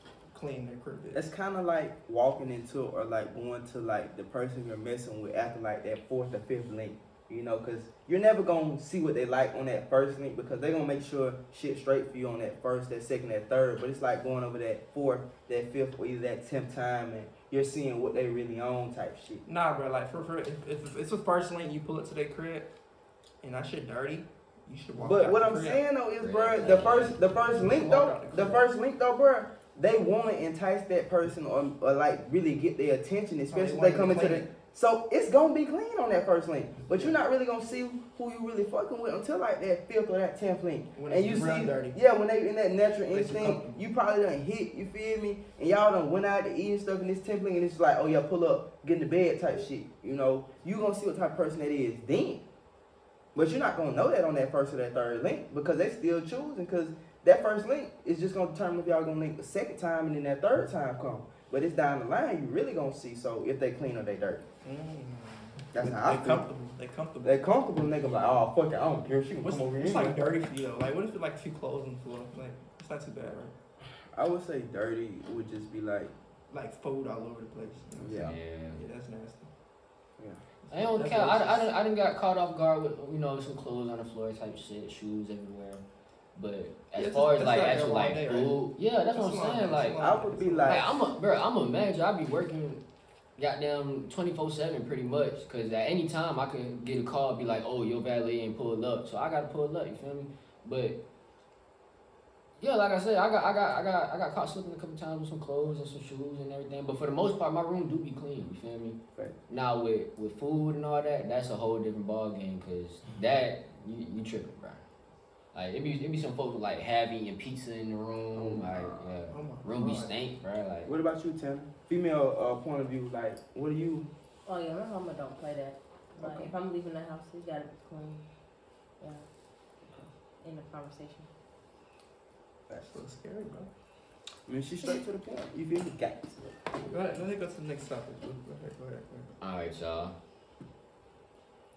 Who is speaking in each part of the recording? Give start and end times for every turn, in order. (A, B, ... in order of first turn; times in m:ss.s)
0:00.3-0:01.2 A
0:01.1-0:19.4 B
0:19.4-0:22.7 A
0:23.4-0:25.8 A
0:25.0-0:52.4 B
0:26.2-0:27.2 C
0:27.5-0:28.6 A
0:33.5-0:34.5 A
0:36.9-0:37.2 A
0:41.0-0:42.0 A
0:43.1-0:43.8 A
0:53.3-1:04.4 B
1:04.6-1:07.4 A
1:05.7-1:06.4 B
1:07.2-1:10.3 B
1:09.4-1:13.5 A
1:14.1-1:16.1 B
1:16.5-1:19.5 A
1:18.0-1:18.3 B
1:18.1-1:18.8 C
1:20.6-1:21.7 A
1:20.7-1:25.8 C
1:26.3-1:30.0 C
1:27.0-1:28.6 A
1:29.1-1:30.9 A
1:30.0-1:31.0 B
1:30.6-1:32.8 C
1:33.4-1:41.0 C
1:42.6-1:49.0 C
1:49.5-1:54.8 C
1:55.5-2:00.9 C
1:58.3-1:59.2 B
1:59.3-2:00.1 A
2:00.8-2:04.1 B
2:04.4-2:08.3 D
2:06.1-2:06.5 B
2:10.4-2:11.3 D
2:12.8-2:13.7 A
2:14.4-2:16.6 B
2:16.9-2:19.3 A
2:19.4-2:20.1 C